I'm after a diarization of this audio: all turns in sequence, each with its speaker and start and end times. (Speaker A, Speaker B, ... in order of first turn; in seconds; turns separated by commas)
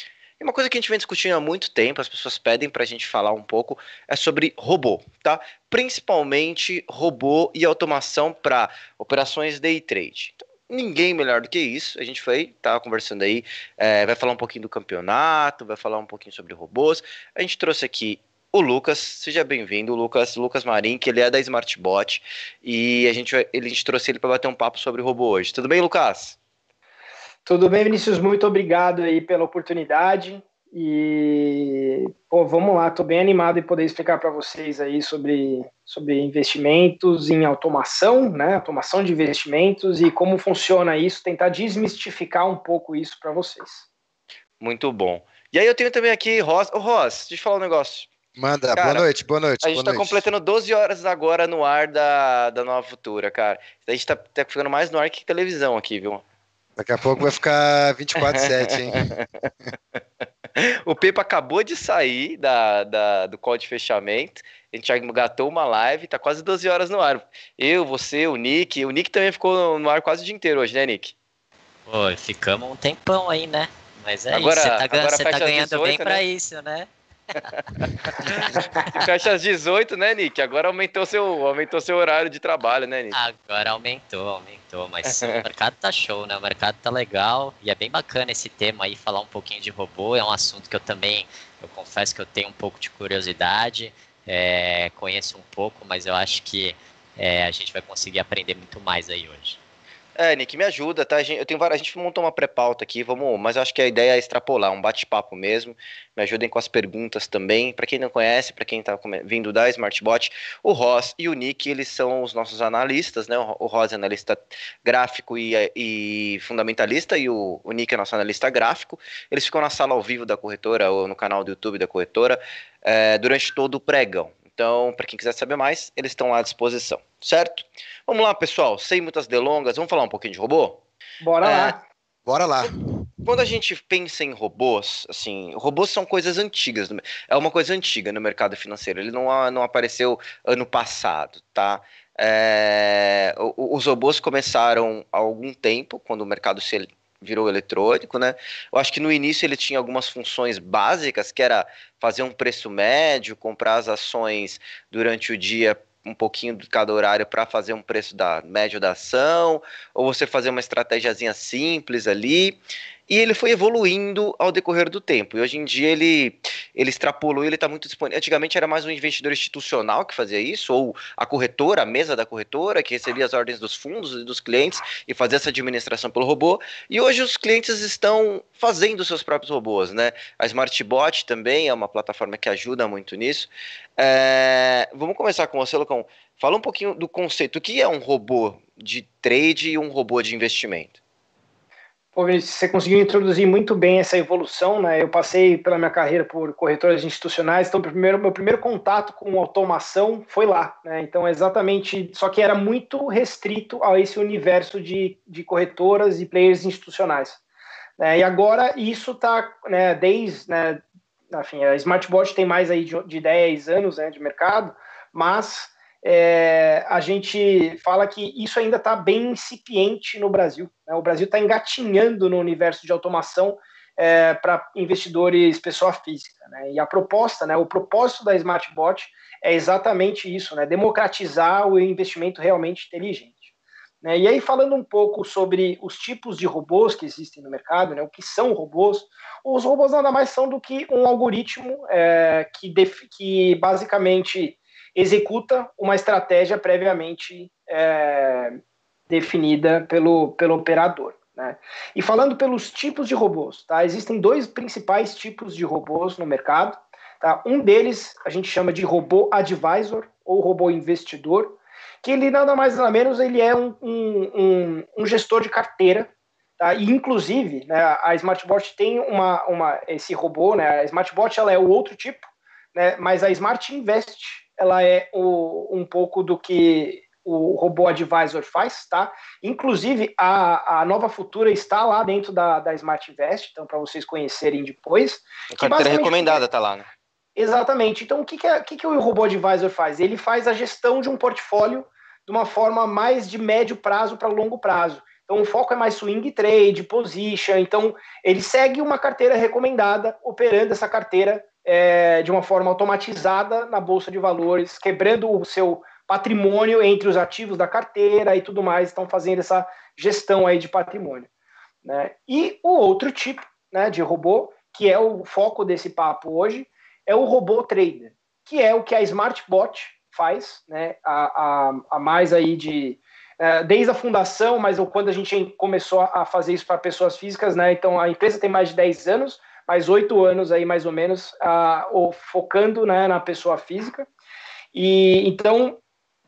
Speaker A: 0.4-26.4, Speaker B: 27.4-43.8, Speaker A: 44.6-48.1, Speaker C: 48.4-50.2, Speaker A: 48.7-49.0, Speaker A: 49.6-56.2, Speaker C: 56.8-59.1, Speaker A: 60.5-71.1, Speaker D: 71.9-76.9, Speaker A: 74.3-76.2, Speaker A: 77.8-83.2, Speaker D: 83.1-99.6, Speaker A: 85.1-85.4, Speaker A: 100.2-130.8, Speaker B: 131.2-131.8, Speaker A: 131.4-131.7, Speaker C: 132.2-132.7, Speaker A: 133.2-162.6, Speaker A: 163.1-190.9, Speaker B: 192.1-207.4, Speaker B: 208.0-210.8, Speaker B: 211.3-233.5, Speaker B: 234.0-248.6, Speaker B: 249.1-286.4, Speaker A: 285.5-286.9, Speaker B: 287.4-311.3, Speaker B: 311.8-334.1, Speaker B: 334.7-335.8